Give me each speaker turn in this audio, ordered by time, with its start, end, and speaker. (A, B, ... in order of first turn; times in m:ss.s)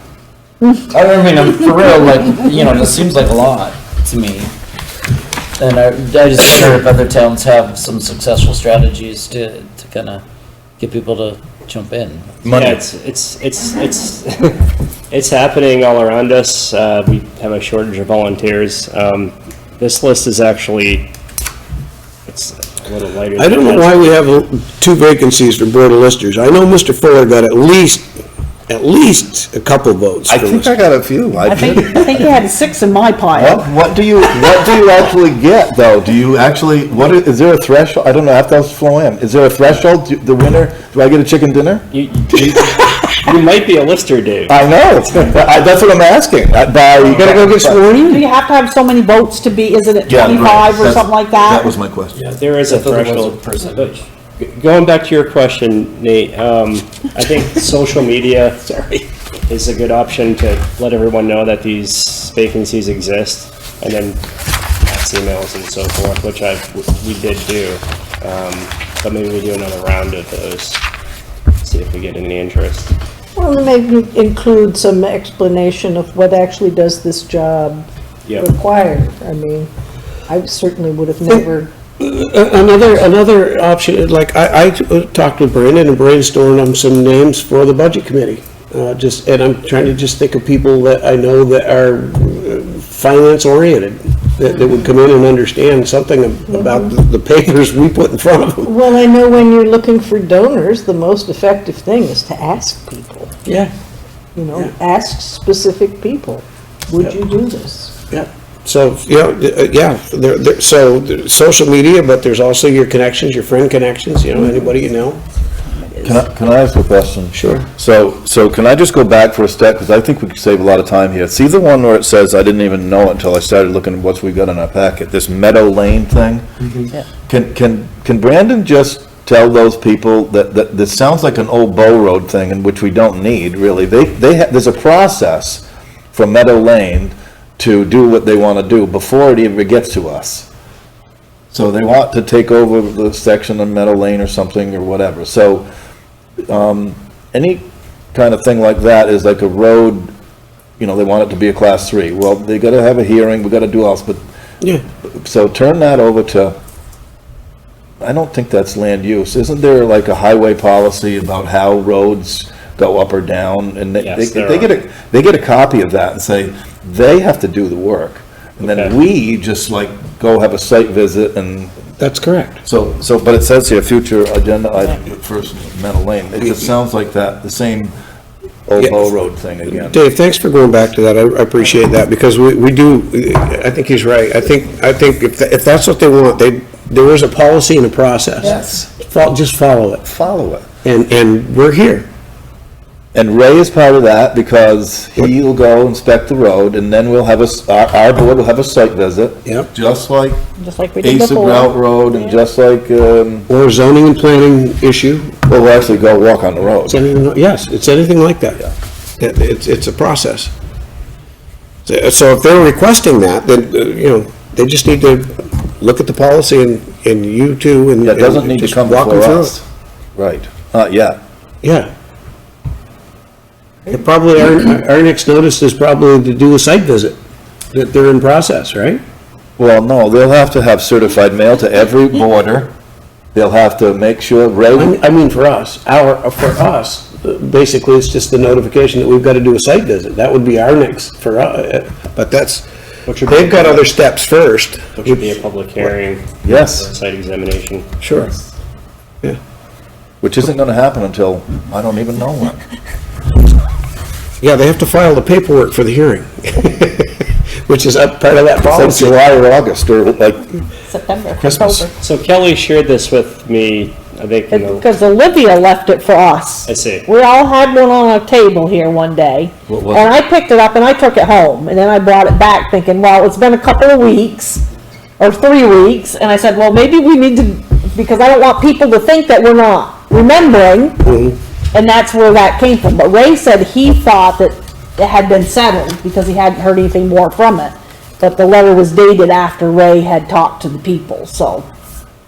0:00.9-0:04.5 A
0:05.6-0:10.2 A
0:10.8-0:12.4 A
0:12.4-0:12.8 B
0:12.5-0:21.1 C
0:22.3-0:24.1 C
0:23.4-0:28.1 D
0:28.7-0:30.7 D
0:30.3-0:32.2 B
0:31.4-0:33.7 E
0:33.3-0:42.6 B
0:41.9-0:42.6 C
0:43.2-0:44.6 C
0:44.5-0:47.9 B
0:47.0-0:47.3 C
0:47.2-0:48.2 D
0:48.0-0:51.7 E
0:50.1-0:52.2 B
0:52.4-0:58.7 C
0:52.6-0:54.0 A
0:58.7-0:59.0 D
0:59.5-1:04.2 C
1:04.8-1:10.8 C
1:11.6-1:12.9 C
1:13.4-1:19.7 F
1:20.3-1:21.7 F
1:22.0-1:38.7 D
1:36.5-1:36.9 F
1:38.6-1:43.4 F
1:43.5-1:43.7 D
1:44.4-1:48.0 F
1:48.1-1:55.2 D
1:55.8-1:56.2 E
1:56.0-2:06.4 B
1:57.3-1:57.7 D
2:07.3-2:20.5 B
2:21.5-2:25.7 B
2:26.5-2:30.1 B
2:30.8-2:34.2 B
2:35.1-2:36.6 B
2:38.0-2:51.8 B
2:44.0-2:44.7 C
2:48.6-2:48.9 C
2:52.0-2:52.6 D
2:52.7-2:58.0 B
2:58.7-3:00.0 B
2:58.8-2:59.1 D
2:59.7-3:10.0 D
3:10.0-3:10.7 B
3:10.8-3:12.1 D
3:13.1-3:20.4 B
3:20.6-3:22.4 E
3:21.0-3:23.5 B
3:23.5-3:25.4 D
3:25.5-3:27.0 B
3:26.9-3:28.6 D
3:29.2-3:30.5 D
3:31.9-3:39.6 D
3:38.0-3:39.6 B
3:40.2-3:41.2 B
3:41.6-3:41.9 D
3:43.9-3:47.2 D
3:47.7-3:49.0 D
3:49.6-3:52.7 B
3:53.3-3:55.0 B
3:54.8-4:02.7 D
4:03.1-4:03.9 C
4:03.2-4:05.3 D
4:05.0-4:07.9 C
4:06.4-4:06.9 B
4:08.0-4:08.3 D
4:10.2-4:12.6 B
4:14.4-4:19.2 D
4:18.7-4:20.4 B
4:20.9-4:21.9 E
4:21.4-4:21.9 B
4:22.0-4:24.8 C
4:24.5-4:34.6 E
4:26.7-4:27.1 C
4:29.7-4:30.1 B
4:35.2-4:41.0 E
4:41.0-4:41.4 D
4:41.7-4:51.7 E